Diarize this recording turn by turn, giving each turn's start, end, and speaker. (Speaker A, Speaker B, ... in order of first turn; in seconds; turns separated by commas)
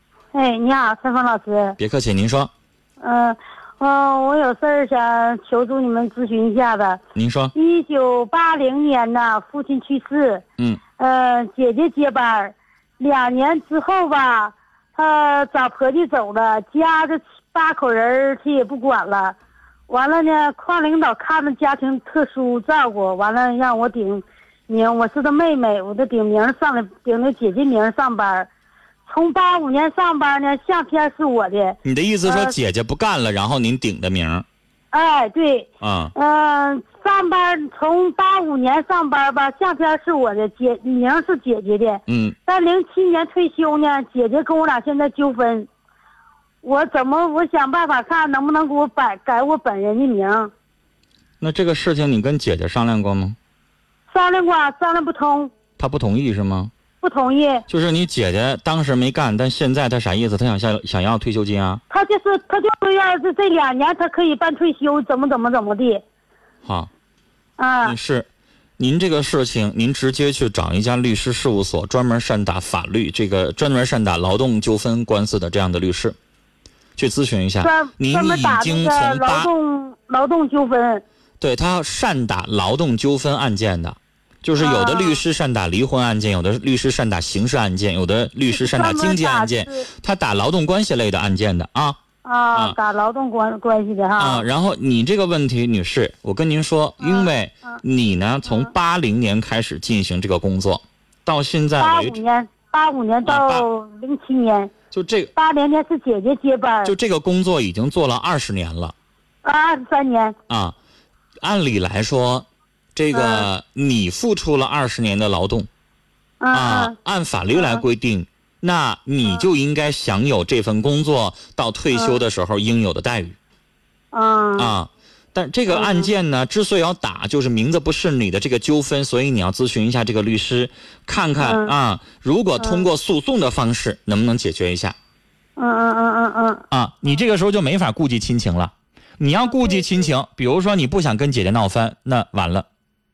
Speaker A: 0.3-1.8, Speaker B: 1.8-2.5, Speaker A: 3.0-7.0, Speaker B: 7.1-7.5, Speaker A: 7.5-10.4, Speaker A: 11.0-19.4, Speaker A: 19.9-28.5, Speaker A: 29.1-32.5, Speaker B: 31.8-34.4, Speaker A: 34.9-45.7, Speaker B: 35.8-36.1, Speaker B: 42.1-42.4, Speaker A: 46.6-50.5, Speaker B: 51.4-53.4, Speaker A: 54.1-55.5, Speaker B: 55.8-56.7, Speaker A: 57.0-57.6, Speaker B: 57.7-61.8, Speaker A: 61.9-66.0, Speaker A: 67.6-68.0, Speaker B: 67.8-68.3, Speaker B: 68.8-76.1, Speaker B: 77.0-79.5, Speaker A: 77.6-81.0, Speaker B: 81.4-92.0, Speaker A: 84.6-85.2, Speaker A: 88.5-89.9, Speaker A: 92.2-94.5, Speaker B: 94.2-102.2, Speaker A: 97.0-97.8, Speaker A: 101.8-104.7, Speaker B: 103.2-103.7, Speaker B: 104.9-105.3, Speaker A: 105.3-106.9, Speaker B: 106.8-108.9, Speaker A: 109.4-110.4, Speaker B: 110.5-110.8, Speaker B: 111.4-115.7, Speaker A: 113.1-113.5, Speaker A: 116.4-116.9, Speaker B: 116.5-123.3, Speaker A: 117.5-117.8, Speaker A: 121.9-122.2, Speaker A: 124.1-124.7, Speaker B: 124.6-134.9, Speaker A: 125.7-126.1, Speaker A: 131.4-131.7, Speaker A: 132.6-132.8, Speaker A: 135.6-136.6, Speaker B: 136.7-142.7, Speaker A: 139.5-140.1